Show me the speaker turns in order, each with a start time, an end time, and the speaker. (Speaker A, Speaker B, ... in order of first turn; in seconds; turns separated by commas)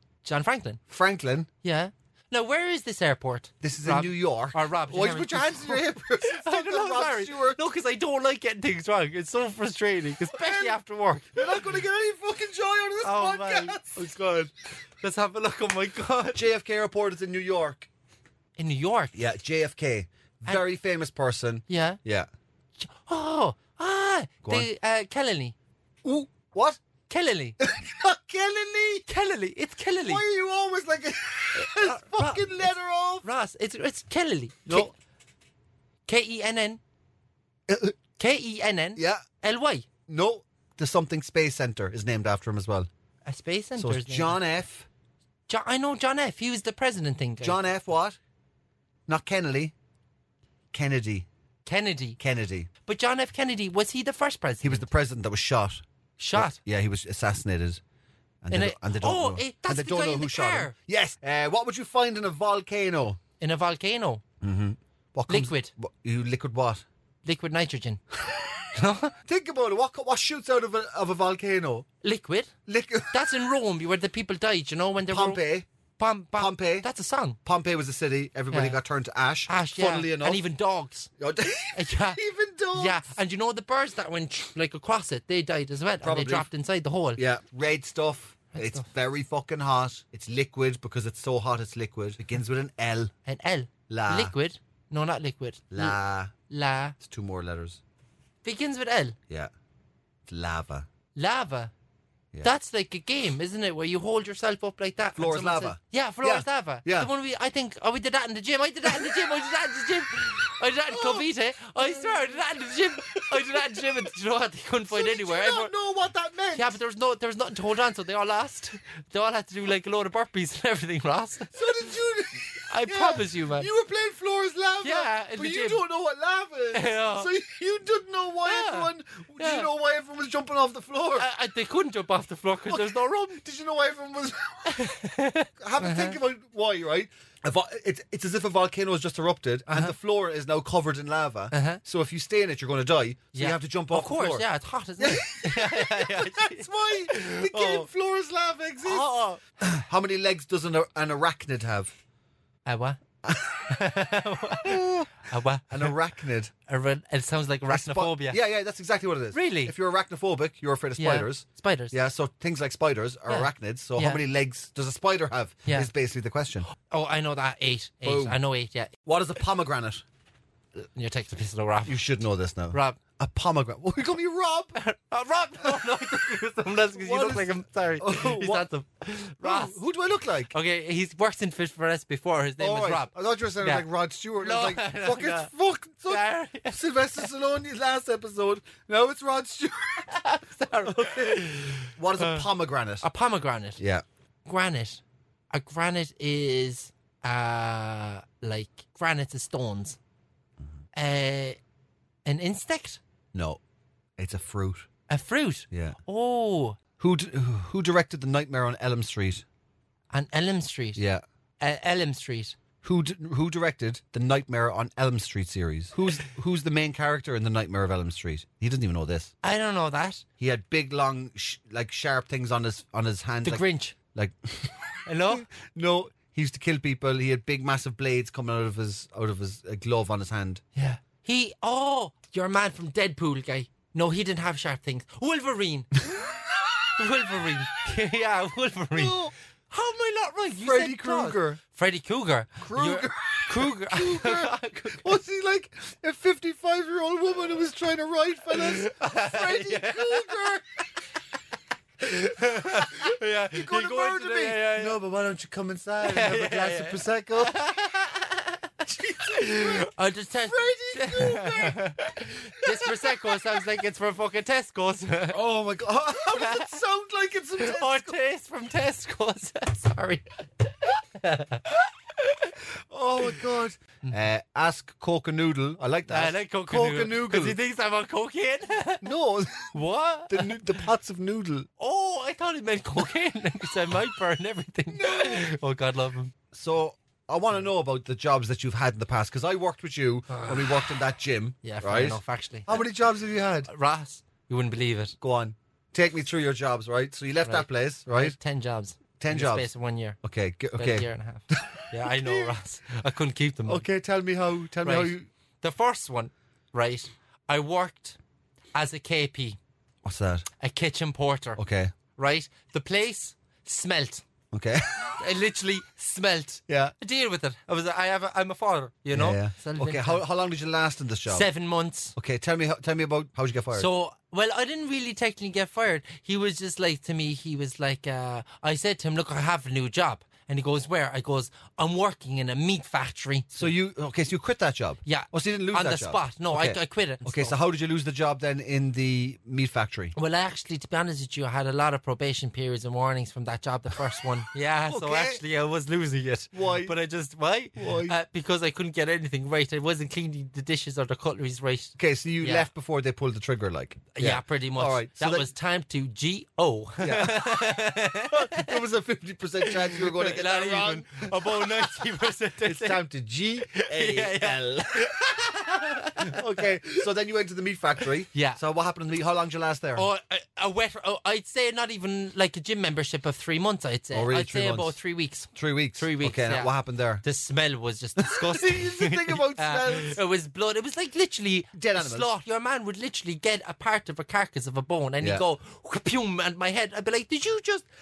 Speaker A: 0.2-0.8, Speaker B: 0.9-1.5, Speaker A: 1.6-11.7, Speaker B: 3.6-7.6, Speaker B: 10.3-10.8, Speaker B: 11.3-14.5, Speaker A: 13.0-14.2, Speaker A: 15.0-16.4, Speaker B: 16.3-17.9, Speaker A: 18.6-19.1, Speaker B: 19.1-22.3, Speaker A: 21.7-22.0, Speaker A: 22.8-25.5, Speaker B: 24.4-24.7, Speaker B: 26.0-26.8, Speaker A: 27.1-27.6, Speaker B: 27.6-29.1, Speaker A: 29.1-30.2, Speaker B: 30.0-33.2, Speaker A: 31.6-32.7, Speaker A: 33.2-34.9, Speaker B: 34.7-34.9, Speaker A: 36.1-36.8, Speaker B: 37.7-38.0, Speaker A: 38.2-39.9, Speaker B: 39.0-39.2, Speaker B: 40.1-42.9, Speaker A: 43.2-44.4, Speaker B: 43.8-44.9, Speaker A: 45.5-47.6, Speaker B: 47.4-48.2, Speaker B: 49.1-49.7, Speaker B: 50.7-51.3, Speaker A: 51.6-52.2, Speaker B: 52.2-52.7, Speaker A: 52.9-54.9, Speaker B: 54.6-55.8, Speaker A: 56.2-56.6, Speaker B: 56.3-57.8, Speaker B: 58.4-63.2, Speaker A: 58.5-60.7, Speaker A: 63.4-64.2, Speaker B: 64.4-66.8, Speaker A: 65.3-65.7, Speaker A: 67.2-68.0, Speaker A: 68.7-69.1, Speaker B: 69.2-71.8, Speaker A: 72.0-72.5, Speaker B: 72.7-73.1, Speaker A: 73.1-75.4, Speaker B: 75.0-75.7, Speaker A: 76.0-77.4, Speaker B: 76.4-76.9, Speaker B: 77.4-80.4, Speaker A: 78.5-78.8, Speaker A: 79.5-81.1, Speaker B: 81.2-83.0, Speaker A: 81.7-82.2, Speaker A: 82.7-87.2, Speaker B: 86.0-86.5, Speaker B: 87.2-93.1, Speaker A: 88.5-88.8, Speaker A: 93.2-96.0, Speaker B: 93.9-94.3, Speaker B: 95.7-96.3, Speaker A: 96.5-97.0, Speaker B: 97.0-97.8, Speaker A: 98.4-99.2, Speaker B: 100.3-100.9, Speaker A: 101.1-101.7, Speaker A: 102.4-115.7, Speaker B: 105.2-107.1, Speaker B: 110.9-111.2, Speaker B: 111.8-112.4, Speaker B: 113.0-114.0, Speaker B: 114.9-116.7, Speaker A: 116.5-121.9, Speaker B: 121.5-131.2, Speaker A: 122.7-123.7, Speaker A: 124.8-125.8, Speaker A: 126.7-127.3, Speaker A: 128.4-129.7, Speaker A: 131.2-133.4, Speaker B: 132.7-134.8, Speaker A: 134.7-136.2, Speaker B: 135.6-144.4, Speaker A: 139.7-139.9, Speaker A: 141.5-141.8, Speaker A: 143.3-147.9, Speaker B: 145.0-149.1, Speaker A: 148.8-149.4, Speaker B: 149.6-151.9, Speaker A: 152.7-153.0, Speaker B: 153.2-153.7, Speaker A: 153.7-155.9, Speaker B: 154.6-155.1, Speaker B: 155.7-156.5, Speaker A: 156.7-158.4, Speaker B: 157.7-166.7, Speaker A: 159.3-159.7, Speaker A: 161.0-161.9, Speaker A: 163.3-164.2, Speaker A: 166.7-168.9, Speaker B: 168.0-168.4, Speaker B: 169.0-170.0, Speaker A: 170.8-172.0, Speaker B: 171.8-174.8, Speaker A: 172.7-173.0, Speaker A: 174.7-179.8, Speaker B: 176.9-178.6, Speaker B: 179.4-180.5, Speaker A: 180.5-183.9, Speaker B: 182.6-190.2, Speaker A: 184.4-185.5, Speaker A: 186.1-187.3, Speaker A: 190.1-192.5, Speaker B: 190.8-193.1, Speaker A: 193.0-193.8, Speaker B: 193.8-194.0, Speaker A: 194.4-200.0, Speaker A: 200.9-201.6, Speaker A: 202.2-203.0, Speaker B: 203.3-203.6, Speaker B: 204.2-204.9, Speaker A: 205.1-206.8, Speaker B: 205.7-206.0, Speaker B: 207.0-209.4, Speaker A: 210.1-211.0, Speaker B: 210.9-211.2, Speaker A: 211.6-212.5, Speaker B: 212.8-219.3, Speaker A: 219.4-220.2, Speaker B: 220.4-230.6, Speaker A: 223.4-223.9, Speaker A: 225.1-225.4, Speaker A: 230.7-235.9, Speaker A: 237.0-245.2, Speaker B: 238.9-239.3, Speaker B: 240.6-241.6, Speaker B: 242.6-250.6, Speaker A: 248.5-250.4, Speaker A: 252.0-255.0, Speaker B: 252.6-257.6, Speaker A: 256.0-265.4, Speaker B: 258.8-259.9, Speaker B: 260.4-262.0, Speaker B: 262.6-263.6, Speaker B: 265.3-268.1, Speaker A: 266.2-266.8, Speaker A: 267.6-272.5, Speaker B: 272.9-277.6, Speaker A: 276.1-279.1, Speaker B: 279.0-279.7, Speaker A: 279.7-280.8, Speaker B: 280.3-281.7, Speaker A: 281.8-286.3, Speaker B: 284.9-285.5, Speaker B: 286.5-293.7, Speaker A: 290.3-290.9, Speaker A: 291.6-292.9, Speaker A: 293.6-295.1, Speaker B: 295.2-298.4, Speaker A: 297.4-300.2, Speaker B: 299.2-299.7, Speaker B: 300.2-302.6, Speaker A: 300.8-303.8, Speaker B: 303.6-305.3, Speaker A: 304.8-308.2, Speaker A: 308.7-309.6, Speaker B: 310.0-310.4, Speaker A: 310.6-311.6, Speaker B: 311.6-311.9, Speaker A: 312.1-314.2, Speaker B: 314.5-315.2, Speaker A: 315.2-320.2, Speaker B: 316.7-316.9, Speaker B: 319.1-321.5, Speaker A: 321.3-322.1, Speaker B: 322.1-323.9, Speaker A: 323.7-333.7, Speaker B: 333.5-340.1, Speaker A: 335.0-337.6, Speaker A: 340.1-352.7, Speaker B: 344.9-345.4, Speaker B: 346.5-346.9, Speaker B: 347.8-348.1, Speaker B: 352.0-355.5, Speaker A: 354.1-358.8, Speaker B: 357.0-357.7, Speaker B: 358.3-362.1, Speaker A: 359.6-363.1, Speaker B: 362.6-365.1, Speaker A: 363.7-367.0, Speaker B: 366.2-370.1, Speaker A: 368.3-368.6, Speaker A: 369.9-387.9, Speaker B: 374.1-374.9, Speaker B: 375.5-377.2, Speaker B: 378.2-380.2, Speaker B: 381.7-382.3